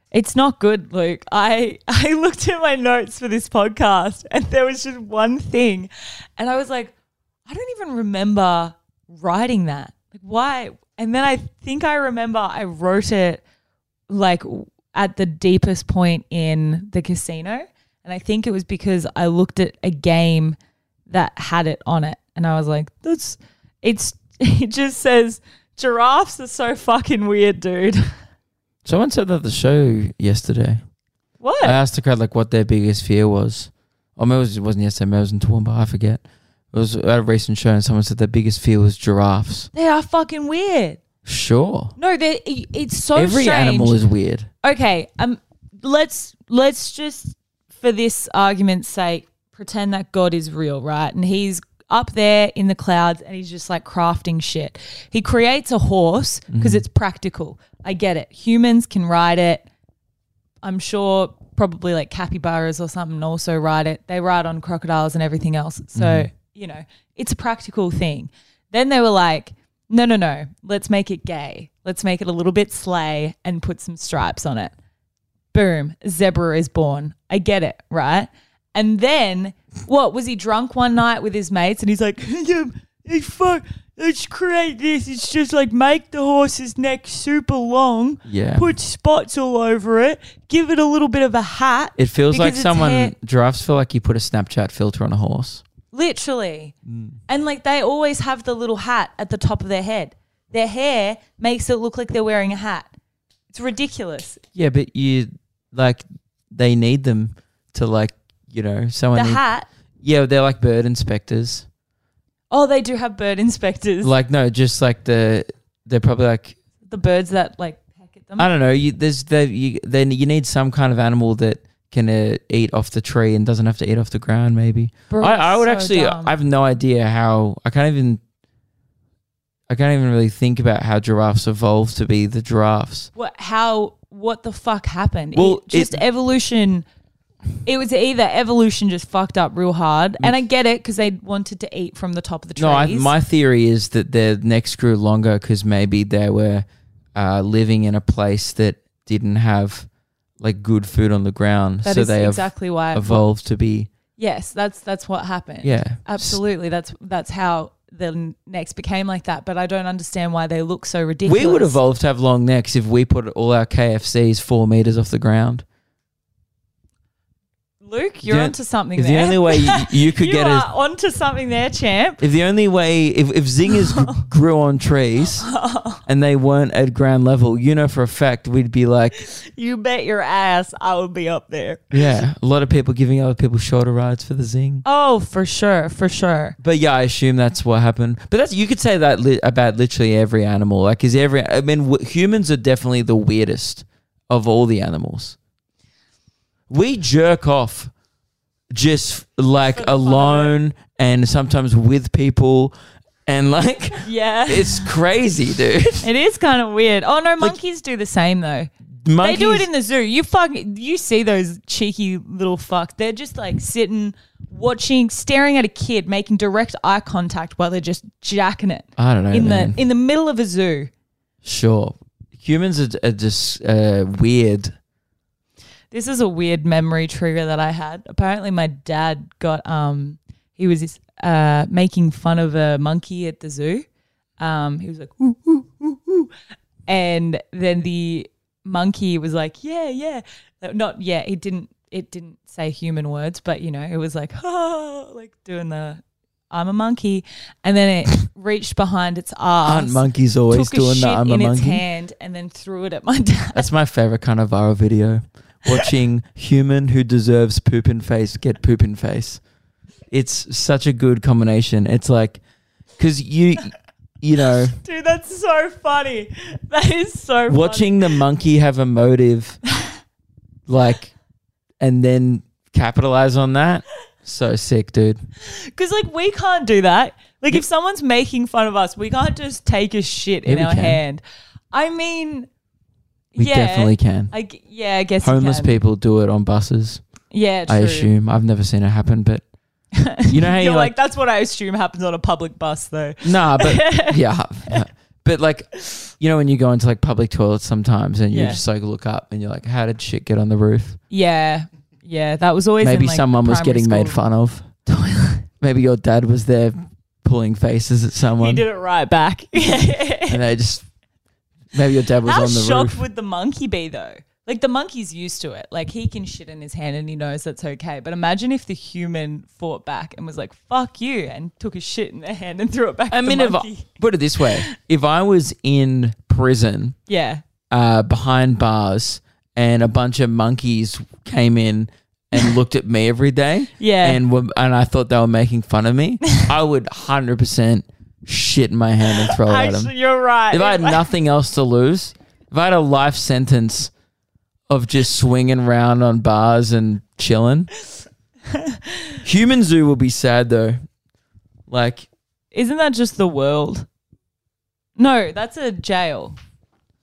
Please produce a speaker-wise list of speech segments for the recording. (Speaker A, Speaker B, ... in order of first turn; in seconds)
Speaker A: 0.1-6.9, 7.5-13.4, 14.1-20.6, 21.1-28.1, 31.4-31.8, 39.7-41.0, 42.0-44.0, 44.6-59.6, 60.6-74.7, 75.5-93.1, 95.9-96.8, 97.3-102.9, 103.5-104.4, 109.1-109.7, 112.5-114.1, 116.9-118.5, 125.1-126.3, 133.2-136.8, 137.7-143.1, 151.8-153.2, 154.2-161.8, 167.8-172.2, 173.7-174.2, 175.4-176.0, 179.2-182.2, 184.8-186.6, 199.7-200.6, 204.0-204.9, 206.0-220.9, 225.9-233.9, 234.4-236.3, 236.9-253.7, 264.8-268.2, 275.4-282.5, 283.3-285.8, 287.3-288.1, 290.0-294.8, 298.3-298.6, 301.1-304.2, 304.9-305.5, 308.4-310.4, 312.2-323.9, 324.4-324.7, 327.1-327.4, 333.8-334.2, 339.2-341.0, 348.5-349.2, 352.5-353.9, 355.0-356.4
Speaker B: 28.9-30.8, 31.6-39.7, 41.2-42.0, 43.1-44.5, 56.5-56.8, 66.0-66.3, 88.2-88.7, 92.0-95.6, 96.9-97.2, 104.5-109.4, 110.0-111.7, 114.0-116.6, 118.4-128.2, 129.7-133.1, 135.3-136.0, 142.6-149.9, 150.4-153.9, 155.6-156.4, 161.2-165.7, 168.2-170.7, 172.2-175.5, 176.1-179.2, 181.9-184.8, 186.6-195.4, 196.7-197.9, 198.7-202.7, 203.3-206.1, 209.0-209.7, 219.0-219.8, 221.4-224.7, 249.6-251.8, 253.5-259.4, 260.1-262.4, 263.0-264.8, 267.5-269.6, 270.7-271.1, 271.8-275.2, 280.5-281.0, 283.4-284.3, 285.2-287.0, 287.7-289.4, 290.3-290.9, 293.2-301.0, 302.8-304.7, 305.6-308.6, 310.3-310.9, 311.7-313.0, 323.1-327.0, 327.7-339.9, 340.5-343.9, 344.7-347.7, 349.2-350.8, 351.7-352.1